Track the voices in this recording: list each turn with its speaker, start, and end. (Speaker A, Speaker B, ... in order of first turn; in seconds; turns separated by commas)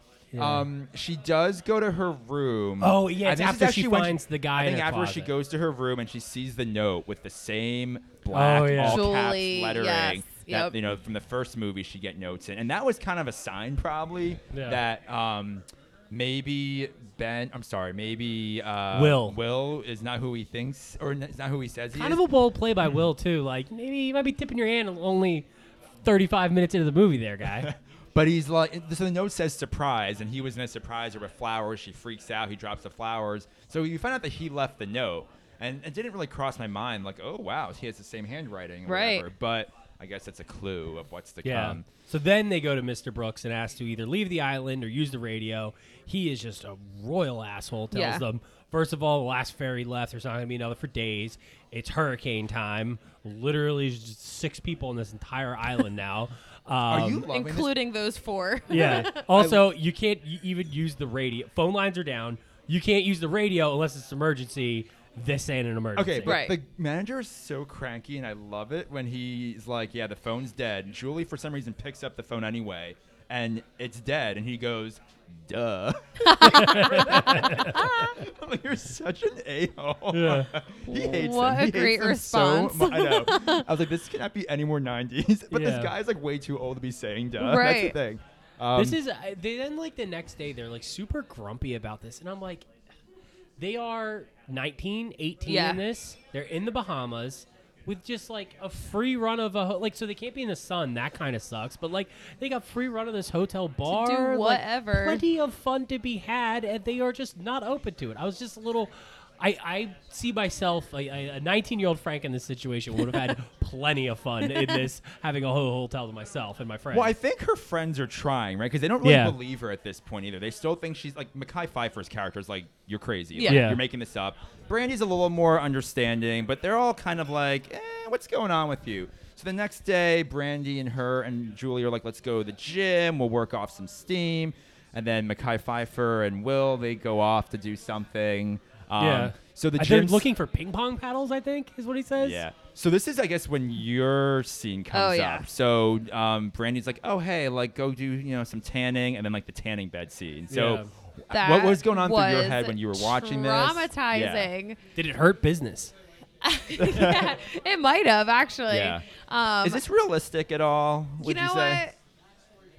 Speaker A: 0.3-0.7, Speaker B: 0.4-22.2, Speaker A: 2.8-5.3, Speaker A: 8.3-9.0, Speaker C: 8.8-10.8, Speaker A: 14.5-14.8, Speaker A: 18.9-19.4, Speaker A: 21.9-25.4, Speaker A: 26.0-27.7, Speaker B: 27.6-41.9, Speaker C: 38.9-39.2, Speaker A: 41.4-57.2, Speaker C: 47.9-48.2, Speaker B: 56.9-57.7, Speaker C: 57.3-59.2, Speaker A: 58.7-66.4, Speaker B: 58.8-59.7, Speaker B: 65.9-89.0, Speaker C: 66.2-66.5, Speaker C: 76.2-78.2, Speaker A: 76.5-77.8, Speaker A: 80.1-80.5, Speaker C: 80.9-83.7, Speaker A: 85.5-85.9, Speaker C: 87.4-88.0, Speaker A: 88.8-92.7, Speaker A: 93.6-117.1, Speaker C: 95.5-95.8, Speaker C: 103.9-105.2, Speaker C: 114.5-114.8, Speaker B: 116.9-140.3, Speaker A: 119.0-119.3, Speaker C: 123.3-123.7, Speaker A: 123.5-123.8, Speaker A: 139.0-142.4, Speaker B: 142.2-154.5, Speaker C: 144.9-145.4, Speaker A: 150.5-150.9, Speaker C: 151.3-154.8, Speaker A: 154.9-155.9, Speaker C: 156.4-159.8, Speaker B: 156.8-157.3, Speaker B: 158.7-159.0, Speaker B: 159.6-161.8, Speaker C: 161.2-161.9